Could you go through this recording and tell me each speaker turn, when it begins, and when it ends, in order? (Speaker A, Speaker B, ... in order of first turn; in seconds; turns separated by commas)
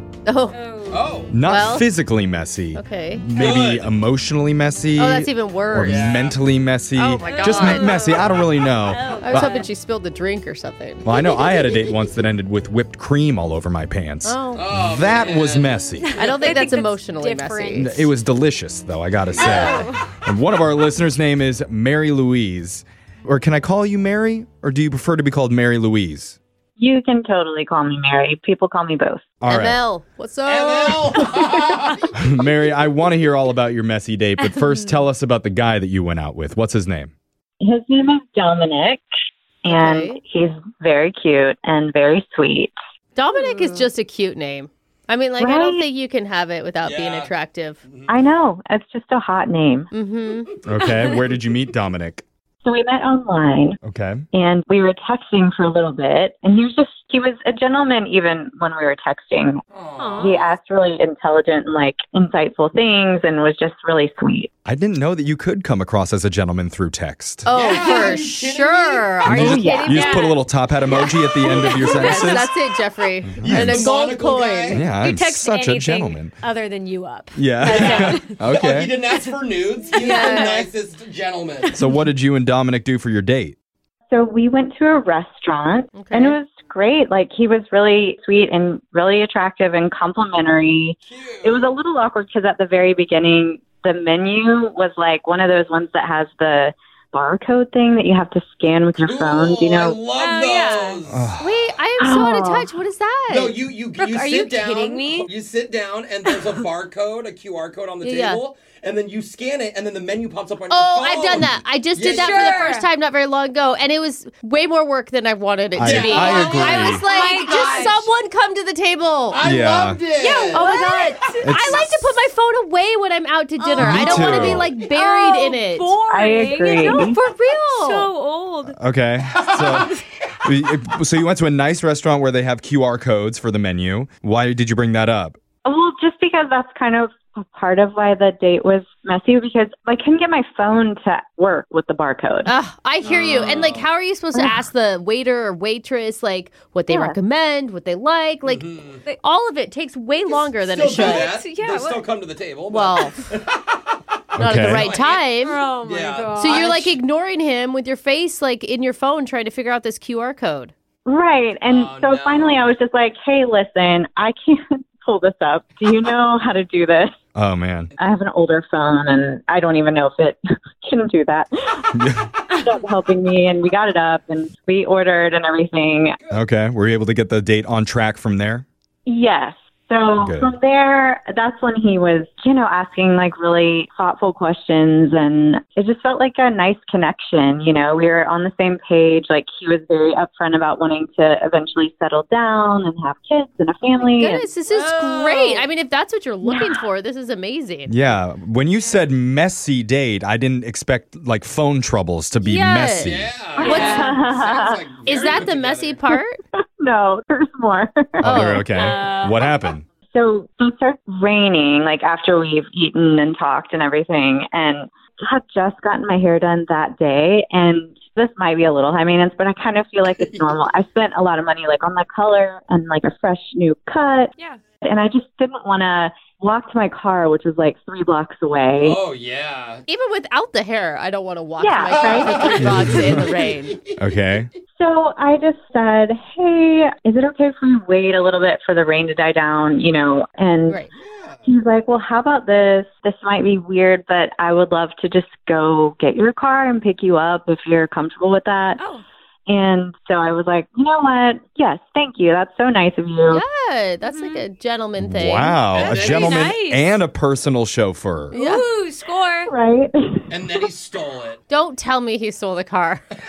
Speaker A: 0.2-0.6, Speaker B: 0.5-1.2, Speaker C: 0.9-1.3, Speaker D: 1.3-9.6, Speaker A: 1.4-1.9, Speaker A: 2.7-3.3, Speaker C: 3.3-3.9, Speaker A: 5.0-6.1, Speaker C: 5.7-6.4, Speaker B: 7.0-9.7, Speaker A: 7.2-8.1, Speaker A: 9.2-11.1, Speaker D: 11.0-16.1, Speaker A: 14.2-14.7, Speaker C: 14.5-15.8, Speaker B: 16.0-18.1, Speaker A: 16.2-18.1, Speaker D: 17.8-26.4, Speaker C: 19.3-19.6, Speaker B: 19.3-20.0, Speaker A: 19.4-19.8, Speaker E: 26.8-29.2, Speaker D: 29.4-29.8, Speaker A: 29.5-31.6, Speaker C: 30.5-32.1, Speaker D: 32.1-37.1, Speaker B: 34.4-35.0, Speaker E: 37.6-39.0, Speaker E: 39.6-42.7, Speaker A: 39.7-40.2, Speaker A: 43.2-47.8, Speaker E: 45.4-45.9, Speaker C: 46.8-47.3, Speaker C: 47.9-48.2, Speaker E: 48.1-49.9, Speaker A: 49.9-50.5, Speaker D: 50.6-52.2, Speaker E: 52.6-53.8, Speaker D: 53.8-54.3, Speaker E: 54.3-59.6, Speaker C: 59.7-60.6, Speaker B: 60.0-60.4, Speaker E: 60.2-64.5, Speaker D: 64.6-67.6, Speaker A: 67.5-69.7, Speaker C: 67.5-69.3, Speaker B: 67.7-68.2, Speaker D: 69.2-72.5, Speaker E: 69.3-70.1, Speaker B: 69.6-72.2, Speaker C: 70.9-72.4, Speaker A: 71.9-74.8, Speaker C: 73.4-74.8, Speaker D: 73.4-74.0, Speaker D: 74.7-76.3, Speaker B: 74.8-78.4, Speaker D: 77.3-78.9, Speaker C: 77.7-81.8, Speaker B: 79.1-80.7, Speaker A: 80.0-80.7, Speaker B: 81.6-82.0, Speaker D: 81.7-83.5, Speaker E: 84.1-100.0, Speaker A: 85.9-86.4, Speaker C: 91.1-91.7, Speaker C: 99.0-101.3, Speaker B: 100.1-101.0, Speaker D: 101.1-101.6, Speaker A: 101.4-103.6, Speaker E: 102.0-102.7, Speaker C: 103.3-112.7, Speaker B: 103.9-105.3, Speaker B: 106.2-106.6, Speaker A: 108.0-108.4, Speaker A: 110.7-119.4, Speaker B: 112.0-112.9, Speaker D: 115.8-117.0, Speaker C: 115.8-118.1, Speaker B: 117.0-118.0, Speaker C: 119.3-120.7, Speaker D: 119.4-120.0, Speaker B: 120.2-121.8, Speaker A: 120.5-126.0, Speaker D: 121.4-122.1, Speaker C: 123.6-124.5, Speaker D: 123.8-124.7, Speaker B: 124.1-128.8, Speaker E: 126.1-127.2, Speaker A: 126.8-128.1, Speaker D: 128.7-135.4, Speaker C: 129.4-129.8, Speaker E: 135.6-142.5, Speaker A: 142.4-148.7, Speaker C: 143.0-143.9, Speaker E: 146.9-147.2, Speaker C: 148.4-149.0, Speaker A: 149.2-151.3, Speaker C: 150.2-154.0, Speaker B: 150.8-152.1, Speaker A: 152.7-153.1, Speaker D: 154.3-154.9, Speaker A: 154.4-155.6, Speaker C: 154.7-157.0, Speaker B: 155.3-156.7, Speaker A: 156.4-160.7, Speaker E: 161.1-167.1, Speaker C: 161.6-162.7, Speaker D: 167.3-167.9, Speaker E: 168.0-171.9, Speaker D: 171.9-172.3, Speaker E: 172.5-176.2, Speaker D: 176.3-178.6, Speaker E: 179.1-194.4, Speaker D: 180.2-180.5, Speaker A: 194.2-197.9, Speaker B: 194.7-195.7, Speaker E: 196.4-196.8, Speaker D: 197.9-203.3, Speaker B: 198.8-199.0, Speaker A: 202.4-204.1, Speaker C: 203.0-206.1, Speaker E: 203.6-204.8, Speaker B: 203.6-204.2, Speaker A: 205.0-206.4, Speaker E: 206.8-208.5, Speaker D: 208.2-209.8, Speaker A: 208.2-208.7, Speaker B: 208.7-209.6, Speaker E: 210.1-224.3, Speaker E: 224.8-229.0, Speaker C: 228.8-229.8, Speaker A: 229.9-233.8, Speaker E: 231.6-232.4, Speaker C: 232.0-234.0, Speaker D: 232.6-233.1, Speaker D: 234.0-234.5, Speaker E: 234.8-240.8, Speaker A: 240.7-240.9, Speaker C: 241.0-241.5, Speaker E: 241.4-248.8, Speaker B: 248.8-249.0, Speaker E: 249.5-253.4, Speaker A: 253.3-255.6, Speaker B: 254.0-254.4, Speaker D: 255.0-258.4, Speaker C: 255.7-256.5, Speaker B: 255.8-257.0, Speaker B: 258.3-259.5, Speaker A: 258.3-258.6, Speaker E: 259.5-260.3, Speaker C: 260.3-261.4, Speaker A: 261.5-263.0